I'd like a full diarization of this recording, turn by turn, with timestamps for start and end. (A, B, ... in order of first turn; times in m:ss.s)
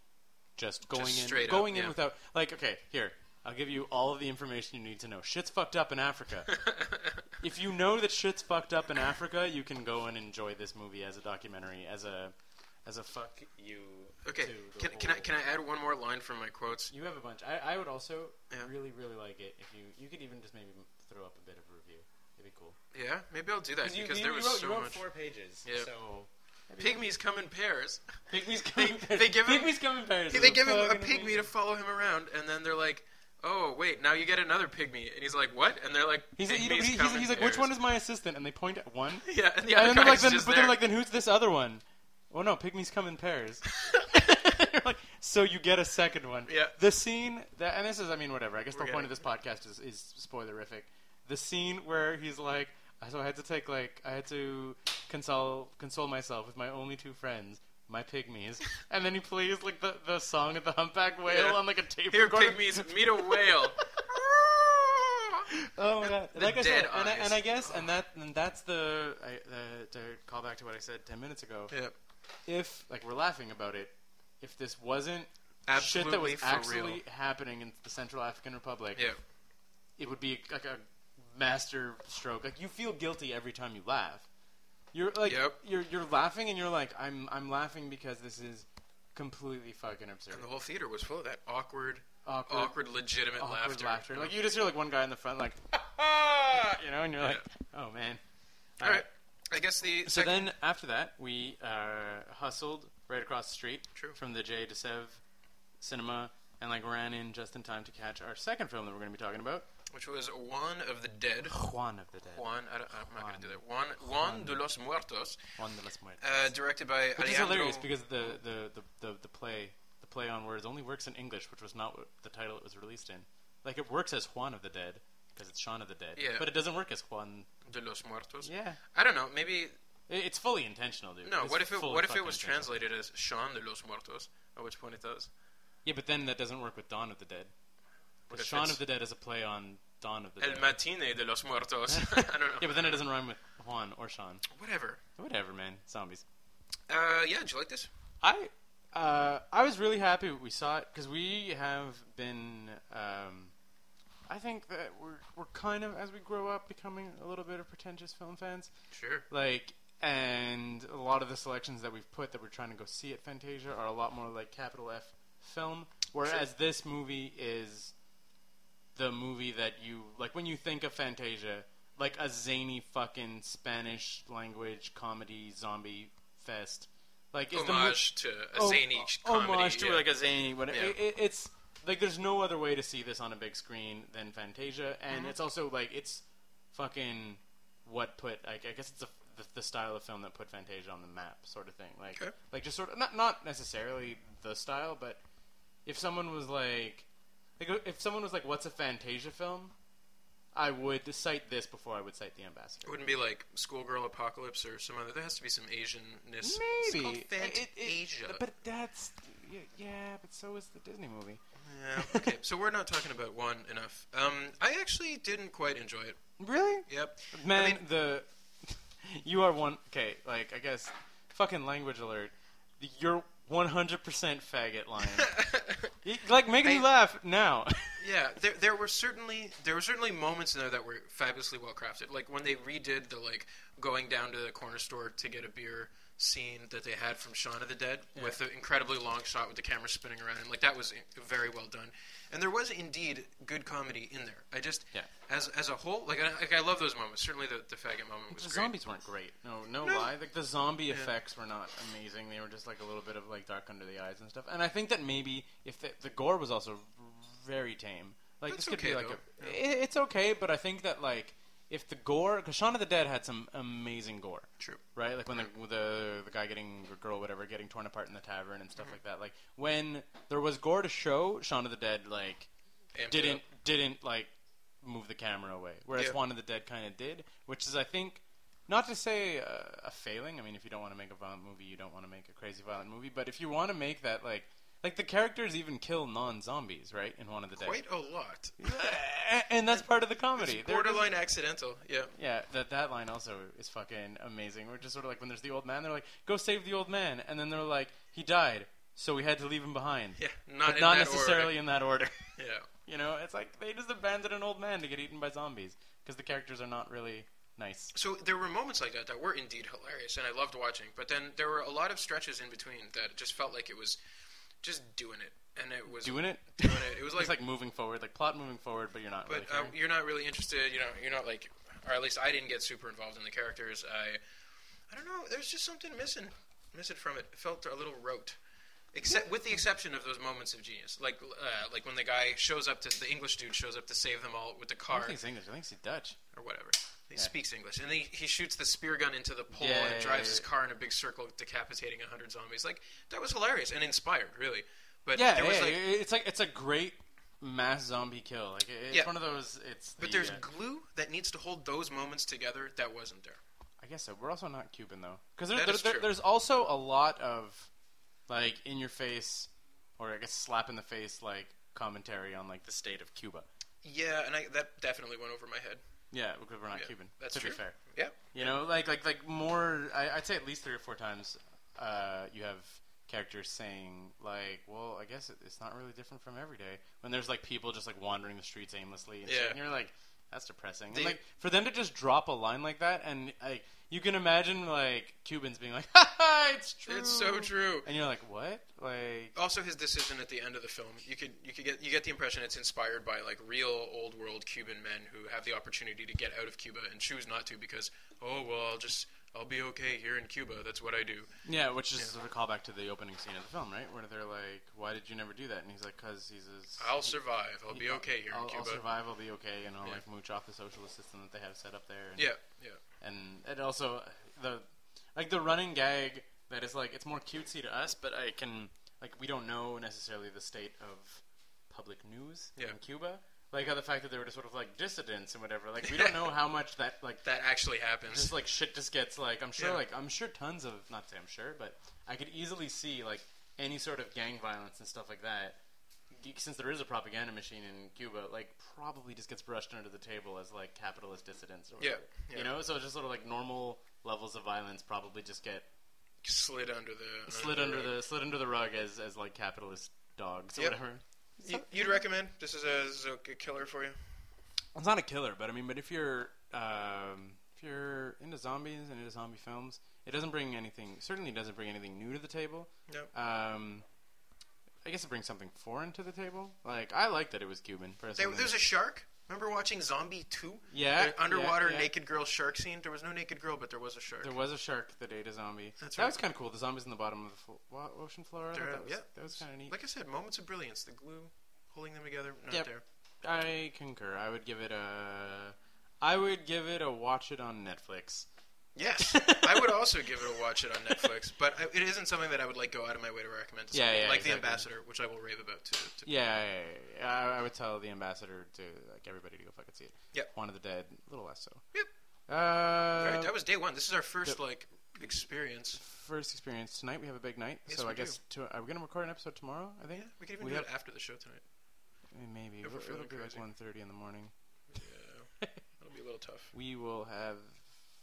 0:00.6-0:06.6 A
0:00.9-0:02.0 B
0:06.5-0:07.2 B
0:07.4-0:15.4 A
0:14.2-0:16.9 B
0:16.9-0:22.8 A
0:22.9-0:25.0 B
0:23.8-0:27.2 A
0:25.6-0:25.9 B
0:26.8-0:28.2 B
0:28.3-0:31.5 A
0:28.7-0:29.8 B
0:30.3-0:37.7 B
0:36.4-1:04.0 A
0:39.2-0:40.8 B
0:46.5-0:46.8 B
0:48.7-0:49.2 B
1:01.2-1:05.4 B
1:05.6-1:11.8 A
1:06.0-1:07.9 B
1:12.4-1:19.1 A
1:15.6-1:17.0 B
1:20.0-1:24.3 A
1:24.9-1:30.5 A
1:25.2-1:25.6 B
1:30.3-1:34.4 B
1:32.2-1:32.8 A
1:33.3-1:38.2 A
1:37.2-1:37.4 B
1:38.8-1:39.0 A
1:38.8-1:40.5 B
1:40.0-1:45.2 A
1:45.8-1:49.7 A
1:49.9-1:51.6 B
1:51.5-1:52.5 A
1:52.2-1:55.5 B
1:53.1-1:54.6 A
1:55.6-1:56.6 A
1:56.2-1:57.9 B
1:57.1-2:07.5 A
2:06.2-2:06.5 B
2:07.6-2:09.7 B
2:08.4-2:08.8 A
2:10.1-2:12.8 A
2:11.2-2:15.3 B
2:15.8-2:17.5 A
2:18.3-2:18.8 B
2:18.3-2:20.8 A
2:20.4-2:23.0 B
2:21.9-2:24.4 A
2:24.5-2:25.0 B
2:25.2-2:26.2 A
2:26.9-2:27.9 B
2:28.2-2:33.5 A
2:34.3-2:38.7 A
2:38.9-2:39.2 B
2:39.3-2:47.9 A
2:49.0-3:15.2 A
2:57.5-3:00.1 B
3:00.6-3:01.0 B
3:05.1-3:05.4 B
3:15.8-3:17.1 A
3:17.6-3:19.7 A
3:20.5-3:23.1 A
3:22.8-3:28.4 B
3:26.4-3:31.4 A
3:31.6-3:36.2 B
3:32.0-3:32.3 A
3:36.4-3:45.3 A
3:36.9-3:37.8 B
3:45.2-3:45.8 B
3:46.0-3:48.0 A
3:48.0-4:08.7 B
4:08.3-4:32.5 A
4:09.8-4:10.1 B
4:10.9-4:11.1 B
4:18.5-4:19.6 B
4:32.9-4:33.4 B
4:33.1-4:47.8 A
4:35.9-4:36.2 B
4:47.5-4:48.8 B
4:48.6-4:51.2 A
4:50.3-4:52.1 B
4:52.1-5:07.9 A
5:00.2-5:01.6 B
5:02.4-5:02.7 B
5:07.9-5:14.0 B
5:14.6-5:17.4 B
5:15.9-5:19.8 A
5:19.2-5:24.2 B
5:24.9-5:28.4 B
5:28.9-5:35.2 B
5:34.9-5:36.2 A
5:36.3-5:45.8 B
5:39.5-5:40.5 A
5:45.1-5:50.4 A
5:48.9-5:49.1 B
5:50.0-5:53.4 B
5:53.8-5:57.7 A
5:55.5-5:56.1 B
5:58.3-6:03.5 A
6:03.8-6:05.8 B
6:06.1-6:07.8 A
6:06.7-6:08.6 B
6:08.3-6:29.3 A
6:19.2-6:19.6 B
6:20.9-6:21.2 B
6:26.8-6:27.9 B
6:29.3-6:41.3 B
6:41.4-6:52.4 A
6:46.8-6:48.8 B
6:52.2-6:52.8 B
6:53.0-7:07.3 A
7:05.8-7:06.4 B
7:07.2-7:08.4 B
7:08.0-7:15.6 A
7:09.6-7:09.8 B
7:16.1-7:25.7 A
7:21.8-7:22.5 B
7:26.2-7:27.9 B
7:27.3-7:32.0 A
7:31.4-7:34.0 B
7:34.7-7:43.8 A
7:44.8-7:48.6 A
7:48.1-7:54.4 B
7:50.7-7:51.9 A
7:54.2-7:59.7 A
7:55.8-7:56.2 B
7:58.5-8:02.8 B
8:02.5-8:08.3 A
8:08.7-8:16.1 B
8:09.0-8:11.1 A
8:13.7-8:14.7 A
8:16.0-8:21.6 A
8:22.3-8:23.3 A
8:23.0-8:25.8 B
8:25.7-8:30.7 A
8:27.7-8:28.2 B
8:29.9-8:31.4 B
8:32.1-8:34.3 A
8:32.6-8:33.4 B
8:34.7-8:36.5 B
8:36.5-8:37.7 A